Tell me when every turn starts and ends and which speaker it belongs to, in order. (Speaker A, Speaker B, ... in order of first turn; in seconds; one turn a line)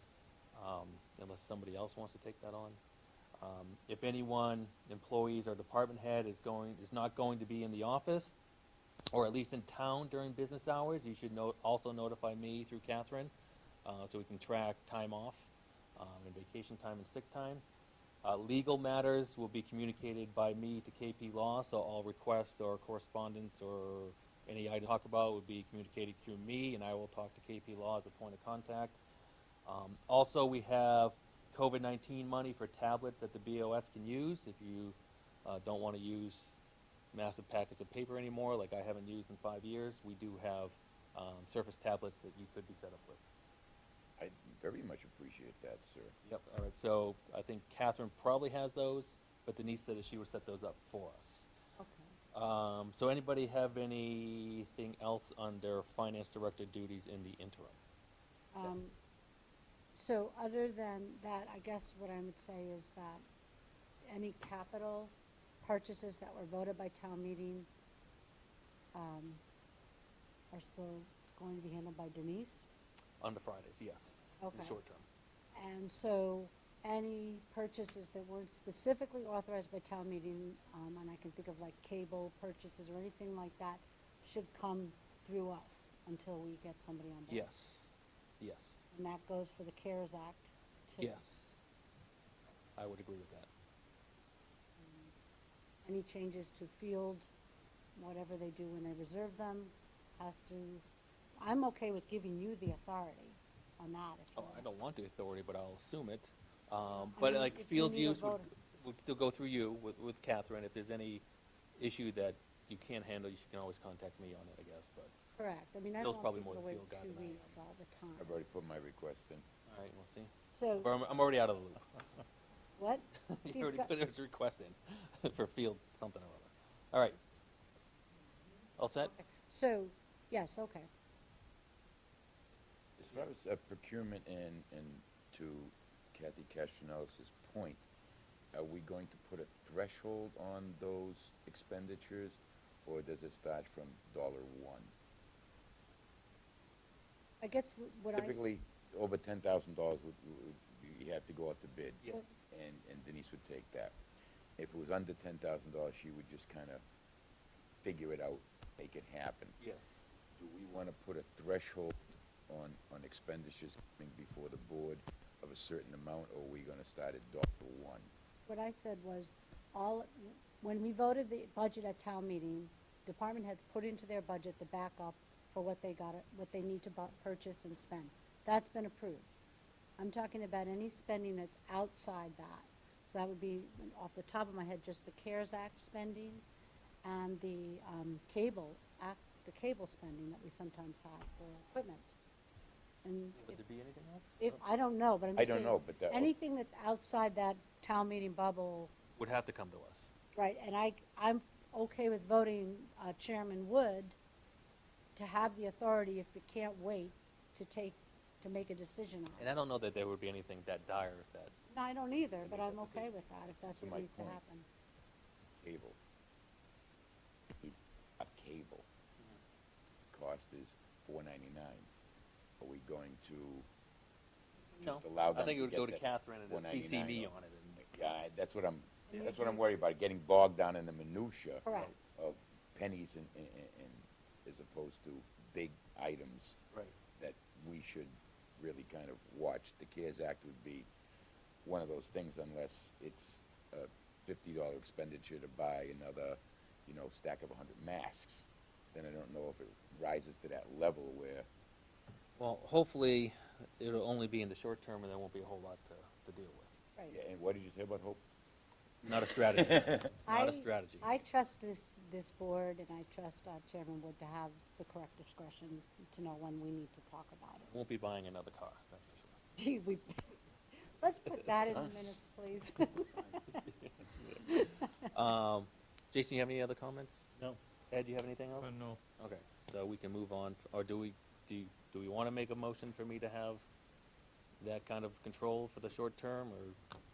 Speaker A: 0.5-2.8
Speaker A: 3.4-8.3
Speaker A: 9.1-13.3
Speaker A: 13.8-17.6
Speaker A: 18.2-29.0
Speaker A: 29.6-36.6
Speaker A: 37.1-43.2
Speaker B: 44.2-46.1
Speaker A: 46.2-51.5
Speaker C: 51.8-52.1
Speaker A: 52.3-57.8
Speaker C: 58.5-58.9
Speaker C: 59.9-63.2
Speaker C: 64.1-67.7
Speaker C: 68.9-69.4
Speaker C: 70.5-72.7
Speaker A: 73.2-75.0
Speaker C: 74.4-74.8
Speaker C: 75.5-87.5
Speaker A: 87.3-88.9
Speaker C: 88.9-91.2
Speaker A: 91.0-91.6
Speaker A: 92.8-93.5
Speaker C: 94.8-95.1
Speaker C: 95.8-97.3
Speaker C: 98.0-100.8
Speaker C: 101.4-104.7
Speaker A: 104.3-111.2
Speaker C: 107.0-108.5
Speaker A: 111.8-115.1
Speaker C: 115.4-118.4
Speaker A: 116.0-117.6
Speaker B: 118.2-119.4
Speaker A: 119.7-121.8
Speaker C: 120.5-120.9
Speaker C: 122.8-123.9
Speaker A: 123.2-127.2
Speaker A: 128.8-129.1
Speaker C: 129.0-130.9
Speaker B: 133.0-137.8
Speaker B: 138.5-144.9
Speaker C: 147.4-148.5
Speaker B: 148.1-154.0
Speaker A: 152.0-152.3
Speaker B: 154.6-156.8
Speaker B: 157.8-159.6
Speaker B: 160.3-168.1
Speaker C: 168.5-179.3
Speaker C: 180.0-186.4
Speaker C: 187.0-192.1
Speaker C: 193.0-193.6
Speaker A: 193.3-194.6
Speaker C: 194.4-198.9
Speaker B: 195.3-196.3
Speaker A: 199.2-200.1
Speaker C: 200.3-204.2
Speaker C: 205.2-209.5
Speaker A: 209.4-211.5
Speaker C: 211.7-214.7
Speaker A: 212.4-213.1
Speaker B: 213.8-214.4
Speaker B: 215.6-216.0
Speaker B: 217.6-218.8
Speaker B: 220.1-221.9
Speaker B: 222.6-223.7
Speaker A: 224.8-227.8
Speaker B: 224.8-236.6
Speaker C: 229.1-229.6
Speaker C: 231.6-231.9
Speaker B: 237.2-240.9
Speaker B: 241.6-251.5
Speaker A: 252.4-256.7
Speaker B: 257.1-258.2
Speaker A: 259.0-261.1
Speaker B: 259.5-260.0
Speaker C: 260.3-267.7
Speaker A: 267.6-269.4
Speaker C: 269.6-273.6
Speaker A: 273.5-283.7
Speaker A: 284.6-286.8